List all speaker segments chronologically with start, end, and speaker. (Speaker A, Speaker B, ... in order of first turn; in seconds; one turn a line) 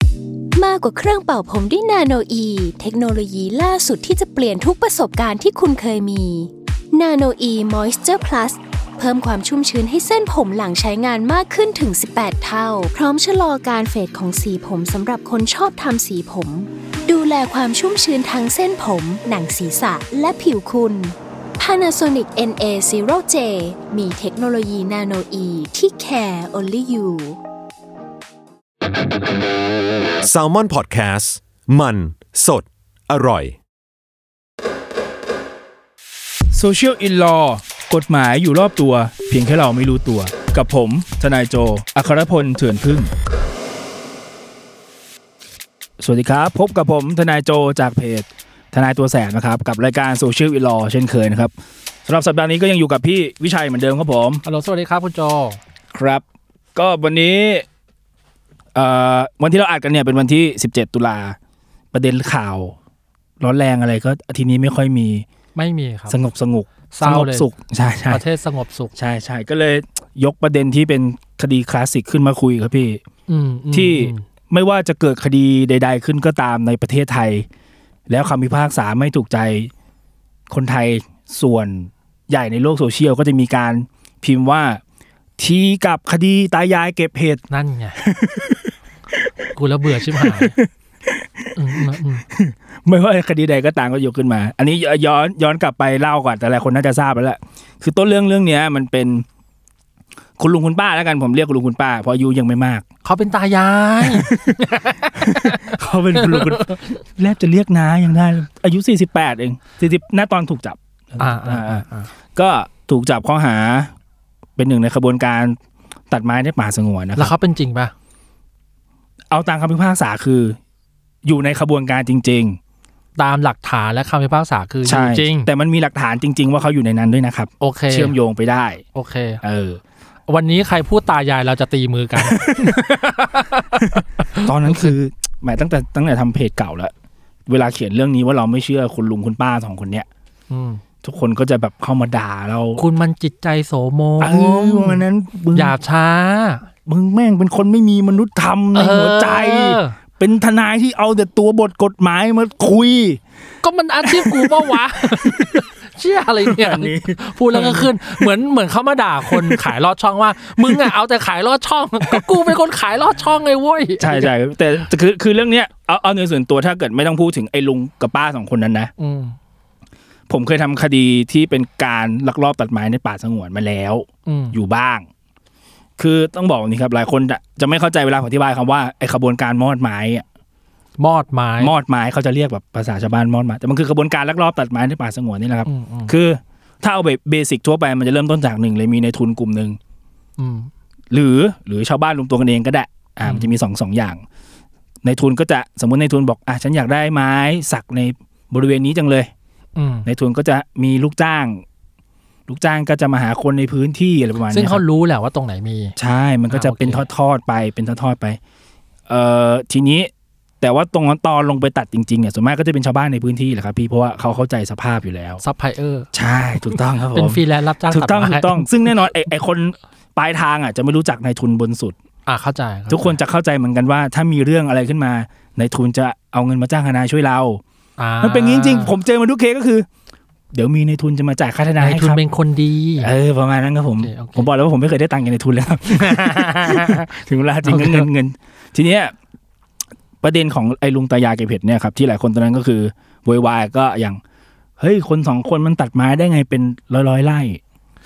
Speaker A: 0.5-27.4
Speaker B: 30.2-33.6
Speaker C: 36.5-43.1
Speaker C: 46.0-51.5
Speaker C: 52.0-54.4
Speaker D: 54.4-55.6
Speaker C: 55.9-56.2
Speaker C: 56.7-57.7
Speaker C: 58.7-61.4
Speaker C: 61.9-62.8
Speaker C: 63.4-65.2
Speaker D: 65.5-66.2
Speaker C: 66.1-68.2
Speaker D: 66.9-67.5
Speaker D: 68.1-68.9
Speaker C: 68.9-73.0
Speaker D: 73.3-74.2
Speaker C: 73.7-77.5
Speaker C: 78.1-79.7
Speaker C: 80.5-84.8
Speaker C: 85.4-87.4
Speaker D: 87.5-88.0
Speaker C: 88.0-88.7
Speaker D: 89.5-90.6
Speaker C: 90.1-99.2
Speaker D: 91.5-92.2
Speaker C: 100.4-102.8
Speaker D: 103.0-106.9
Speaker C: 104.0-111.8
Speaker D: 111.2-112.1
Speaker C: 112.3-113.9
Speaker C: 114.5-115.6
Speaker C: 116.1-117.3
Speaker D: 117.2-117.9
Speaker C: 119.3-120.6
Speaker C: 121.2-122.6
Speaker D: 123.2-125.5
Speaker C: 124.8-128.8
Speaker D: 127.6-128.2
Speaker D: 128.9-129.4
Speaker C: 129.4-129.8
Speaker D: 130.3-134.9
Speaker C: 132.2-132.8
Speaker C: 134.4-136.9
Speaker C: 137.5-140.1
Speaker D: 140.5-140.8
Speaker C: 141.0-142.8
Speaker D: 142.8-146.7
Speaker C: 144.2-145.7
Speaker C: 146.8-153.2
Speaker D: 148.7-149.9
Speaker D: 153.6-164.3
Speaker C: 154.0-155.6
Speaker C: 156.4-158.3
Speaker C: 159.2-159.6
Speaker C: 164.0-168.9
Speaker D: 169.0-169.3
Speaker C: 170.3-175.1
Speaker D: 174.2-174.6
Speaker C: 176.0-180.2
Speaker D: 181.0-181.7
Speaker C: 181.6-189.8
Speaker D: 185.7-186.2
Speaker D: 190.4-190.7
Speaker C: 191.1-194.2
Speaker D: 193.2-193.5
Speaker C: 195.0-199.3
Speaker D: 199.8-200.1
Speaker C: 200.1-201.6
Speaker C: 202.5-204.8
Speaker D: 204.5-205.9
Speaker C: 206.0-208.4
Speaker D: 206.5-207.1
Speaker C: 209.1-215.4
Speaker D: 215.4-216.1
Speaker C: 216.1-221.9
Speaker D: 216.6-218.7
Speaker D: 222.2-223.2
Speaker C: 222.9-227.6
Speaker D: 228.0-228.9
Speaker C: 228.2-229.9
Speaker C: 230.5-232.2
Speaker D: 231.8-233.1
Speaker C: 233.0-239.1
Speaker D: 234.0-234.5
Speaker D: 235.9-237.0
Speaker D: 237.7-238.1
Speaker C: 240.2-244.2
Speaker C: 244.8-247.6